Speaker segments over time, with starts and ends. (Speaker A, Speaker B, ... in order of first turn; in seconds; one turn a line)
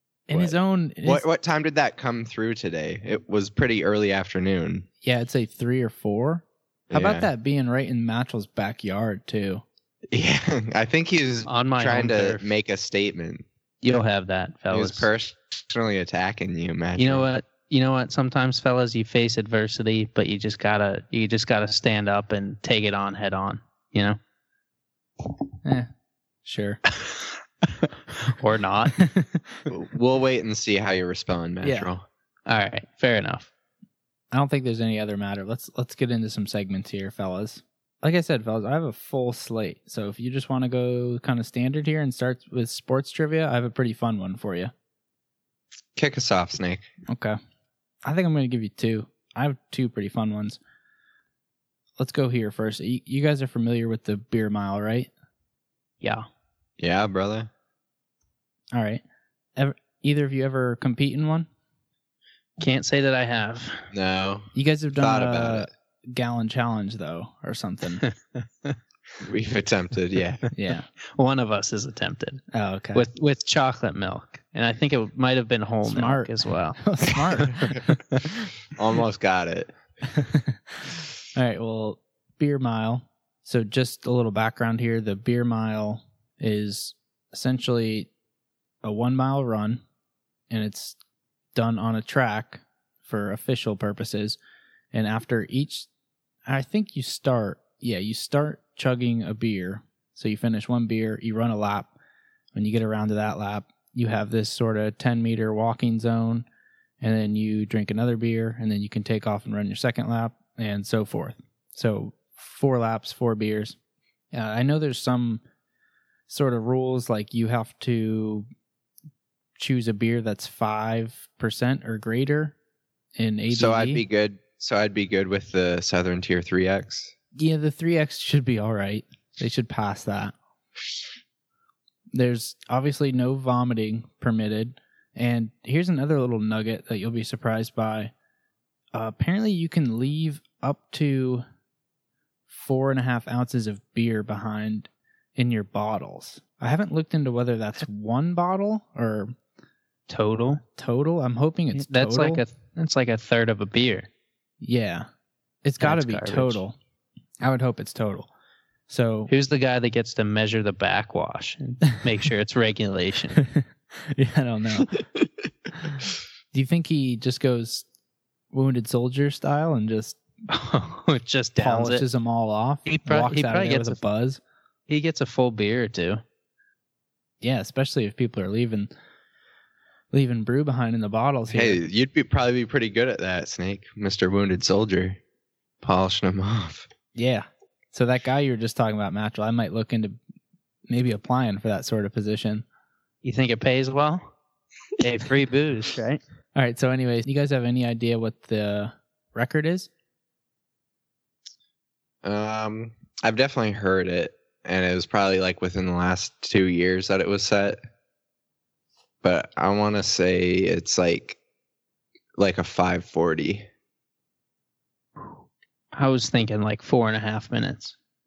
Speaker A: 0.3-1.2
Speaker B: 0.3-4.9
Speaker A: 5.0-9.6
Speaker B: 6.9-7.3
Speaker B: 10.1-13.5
Speaker C: 11.5-12.5
Speaker C: 13.8-15.1
Speaker B: 14.7-17.3
Speaker C: 17.0-24.2
Speaker A: 25.6-25.9
Speaker A: 26.4-26.8
Speaker C: 28.3-29.0
Speaker A: 29.0-29.6
Speaker B: 29.7-32.0
Speaker A: 31.6-31.9
Speaker C: 32.5-33.5
Speaker A: 34.3-44.7
Speaker B: 46.0-46.9
Speaker A: 47.1-47.4
Speaker A: 48.0-50.6
Speaker A: 52.0-55.1
Speaker B: 56.8-57.5
Speaker A: 58.7-59.0
Speaker A: 59.6-61.5
Speaker C: 62.6-63.9
Speaker B: 63.9-65.7
Speaker A: 64.5-68.0
Speaker C: 68.1-68.8
Speaker B: 69.2-70.4
Speaker A: 70.5-70.9
Speaker C: 71.2-77.6
Speaker A: 72.5-73.0
Speaker A: 75.8-77.6
Speaker B: 78.8-79.8
Speaker A: 80.1-80.6
Speaker A: 81.3-88.1
Speaker A: 88.8-89.8
Speaker A: 90.5-91.0
Speaker A: 91.5-94.4
Speaker A: 94.9-95.9
Speaker A: 96.5-101.9
Speaker A: 102.5-106.5
Speaker A: 107.0-113.8
Speaker A: 114.3-115.4
Speaker A: 116.3-118.5
Speaker A: 119.6-122.5
Speaker A: 123.2-124.0
Speaker B: 123.5-127.1
Speaker A: 127.4-130.3
Speaker A: 132.1-138.1
Speaker A: 138.9-141.4
Speaker A: 142.5-149.3
Speaker C: 150.1-150.6
Speaker A: 150.8-152.4
Speaker C: 151.7-154.1
Speaker A: 154.6-155.1
Speaker A: 155.6-156.8
Speaker C: 155.8-156.6
Speaker A: 157.4-158.3
Speaker A: 158.9-159.3
Speaker C: 159.3-163.4
Speaker A: 163.5-164.9
Speaker A: 166.5-167.8
Speaker A: 168.5-170.2
Speaker C: 170.5-172.1
Speaker A: 171.6-174.4
Speaker C: 172.9-174.0
Speaker C: 174.9-176.2
Speaker A: 177.4-178.9
Speaker A: 180.1-181.8
Speaker B: 181.5-185.2
Speaker B: 185.8-186.9
Speaker A: 187.2-190.2
Speaker A: 190.9-192.7
Speaker C: 193.2-194.2
Speaker C: 195.0-196.2
Speaker A: 196.6-199.9
Speaker B: 202.2-207.8
Speaker B: 209.2-211.4
Speaker B: 212.4-213.7
Speaker C: 215.9-217.9